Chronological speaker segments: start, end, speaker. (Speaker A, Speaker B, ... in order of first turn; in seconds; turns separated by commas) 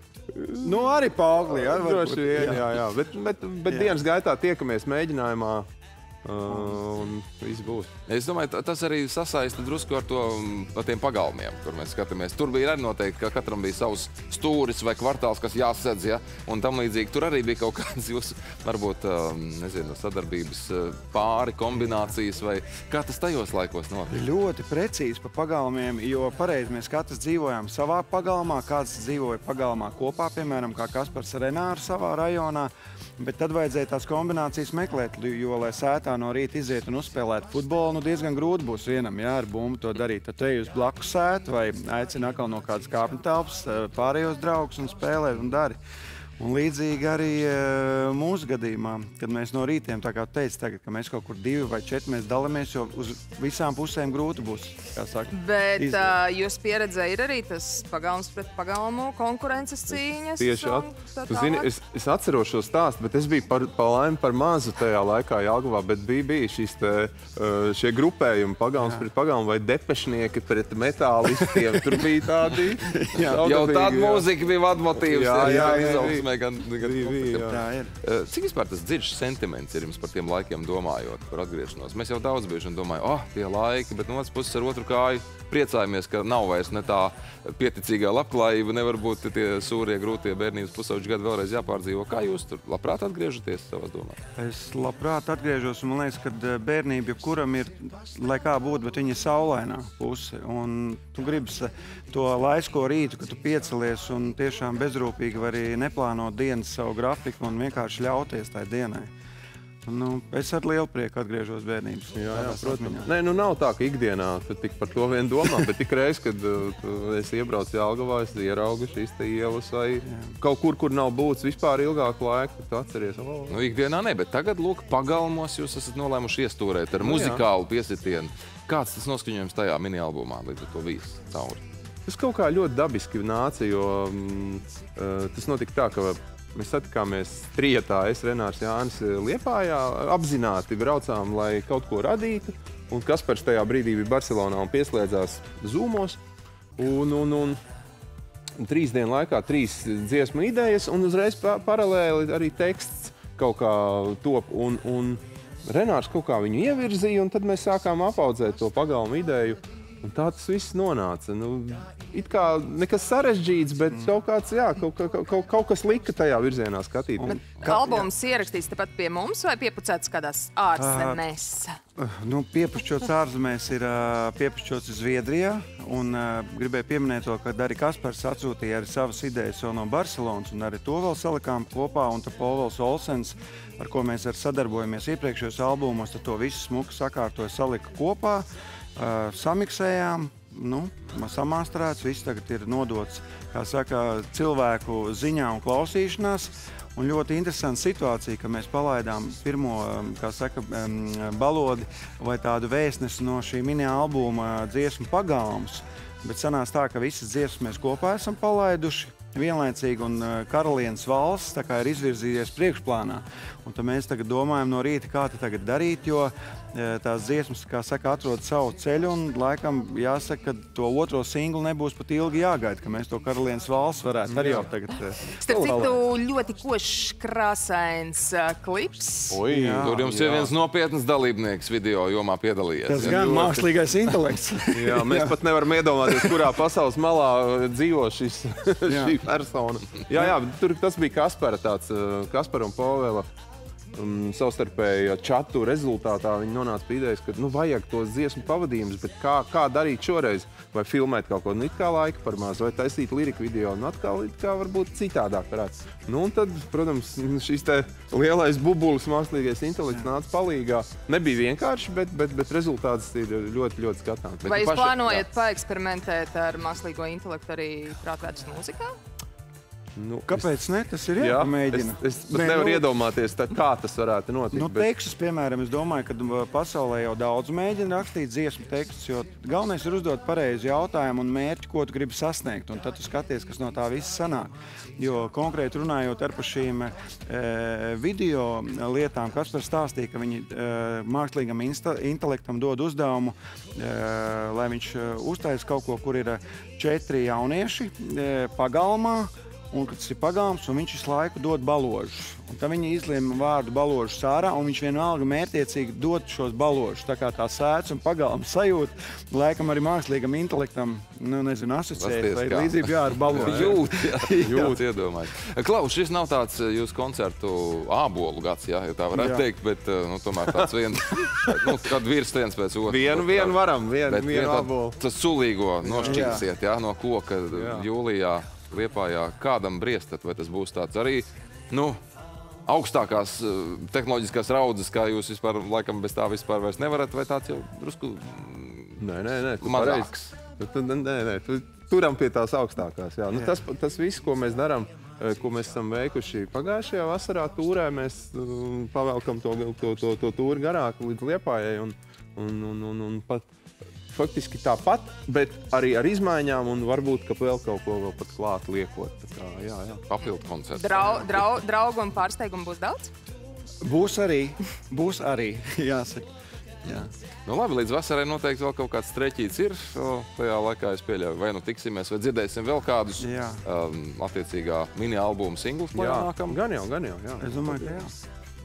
Speaker A: 0.3-5.7, Speaker B: 0.6-2.8, Speaker B: 3.7-4.0, Speaker A: 6.2-7.9, Speaker C: 8.1-24.2, Speaker B: 24.1-45.8, Speaker B: 46.4-56.2, Speaker D: 55.3-61.7, Speaker A: 59.9-74.3, Speaker B: 68.8-69.1, Speaker B: 72.8-73.4, Speaker C: 73.3-94.2, Speaker A: 75.0-76.3, Speaker B: 75.4-76.0, Speaker A: 76.8-77.6, Speaker B: 77.4-77.9, Speaker B: 94.4-109.1, Speaker B: 109.9-113.1, Speaker A: 112.2-123.6, Speaker B: 120.1-120.3, Speaker C: 123.5-131.6, Speaker A: 127.0-127.5, Speaker A: 132.1-146.2, Speaker A: 146.8-147.6, Speaker A: 148.6-167.4, Speaker B: 167.2-168.1, Speaker D: 167.3-171.8, Speaker B: 170.8-171.2, Speaker B: 172.0-226.0, Speaker A: 224.3-224.7, Speaker D: 225.4-229.4, Speaker A: 229.3-230.5, Speaker B: 229.5-230.1, Speaker C: 229.8-233.5, Speaker B: 232.8-235.4, Speaker A: 233.0-233.6, Speaker A: 234.7-243.3, Speaker B: 236.0-236.4, Speaker B: 238.9-239.2, Speaker A: 243.9-264.4, Speaker C: 264.4-265.2, Speaker D: 264.4-269.0, Speaker A: 270.0-270.5, Speaker B: 270.3-272.9, Speaker A: 271.2-274.9, Speaker B: 274.5-314.8, Speaker C: 311.9-332.0, Speaker A: 313.4-313.8, Speaker A: 314.4-314.7, Speaker B: 319.1-319.4, Speaker A: 322.9-325.0, Speaker A: 325.8-326.4, Speaker B: 326.0-326.5, Speaker A: 327.5-327.9, Speaker C: 332.7-339.0, Speaker A: 339.0-353.5, Speaker C: 339.6-340.4, Speaker A: 354.1-360.0, Speaker C: 360.1-361.4, Speaker D: 360.8-363.1, Speaker B: 363.8-366.3, Speaker B: 366.8-367.1, Speaker C: 366.9-376.6, Speaker B: 373.2-373.6, Speaker A: 375.9-378.0, Speaker B: 377.4-378.1